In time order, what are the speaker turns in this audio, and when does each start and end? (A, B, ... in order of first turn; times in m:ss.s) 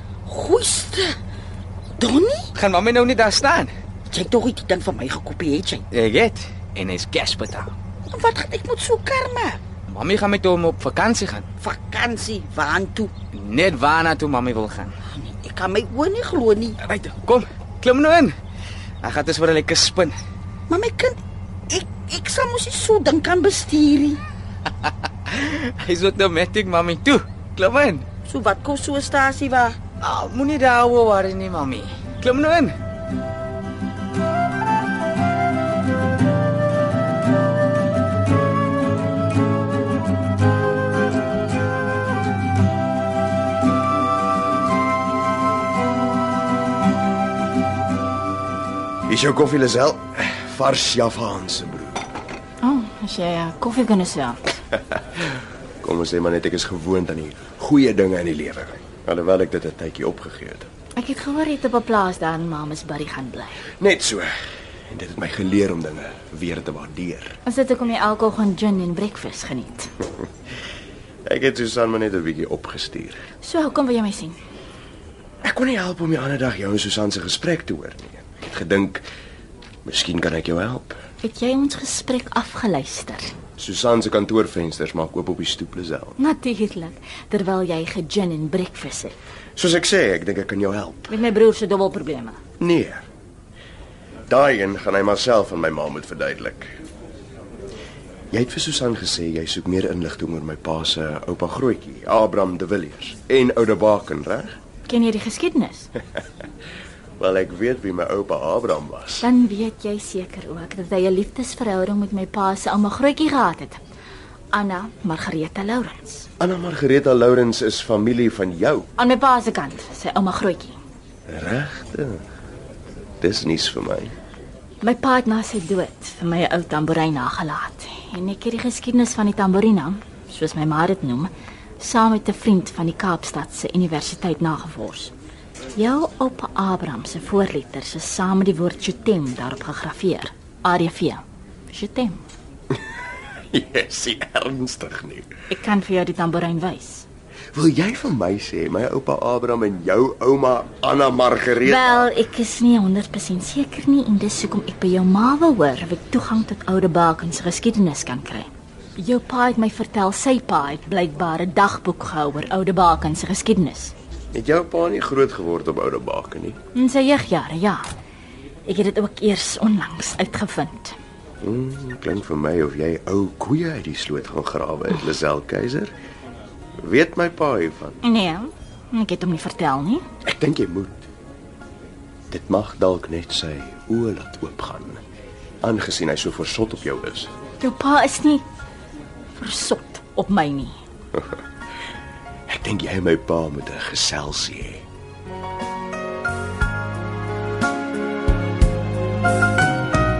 0:00.3-0:01.2 A
0:02.0-0:02.5 A
0:02.6-0:03.7 B
0:04.1-0:05.8 A
0:05.9-0:07.7 B
0:08.1-0:09.6 A
0:09.9-0:11.5 B
0:11.6-0:13.1 A
0:13.3-0:14.9 B
0:15.1-0:16.8 A
0:16.8-0:18.3 B
0:19.0-0:20.2 B
0:20.7-0:24.2 A
0:24.8-0:28.1 B
0:28.3-0:29.8 A
0:30.0-0:32.7 B
0:49.1-0:52.0 C
0:52.6-0:54.6 D
0:55.8-1:00.7 C
1:01.0-1:03.6 D
1:03.8-1:04.3 C
1:04.9-1:07.4 C
1:07.5-1:09.9 D
1:11.3-1:13.2 C
1:13.4-1:14.4 D
1:15.4-1:19.0 C
1:19.8-1:21.0 C
1:21.2-1:23.4 D
1:23.6-1:26.2 C
1:26.2-1:29.2 D
1:29.6-1:31.2 C
1:31.1-1:32.4 D
1:32.6-1:33.1 C
1:34.3-1:36.7 C
1:38.3-1:44.5 C
1:44.9-1:45.9 D
1:47.2-1:49.3 C
1:49.2-1:53.8 D
1:54.5-1:56.3 D
1:56.4-1:58.9 C
1:59.0-2:00.8 D
2:01.3-2:02.2 C
2:03.2-2:04.2 C
2:04.8-2:15.1 D
2:15.8-2:22.2 D
2:23.5-2:25.3 C
2:25.5-2:27.1 D
2:27.5-2:32.1 C
2:31.6-2:43.9 D
2:44.3-2:46.6 C
2:46.8-2:47.8 D
2:48.7-2:51.0 D
2:51.4-2:55.9 C
2:56.8-2:58.0 C
2:58.0-3:00.0 D
3:00.2-3:01.0 C
3:02.3-3:05.0 C
3:05.6-3:07.3 C
3:07.6-3:08.4 D
3:09.3-3:10.8 D
3:12.5-3:14.8 C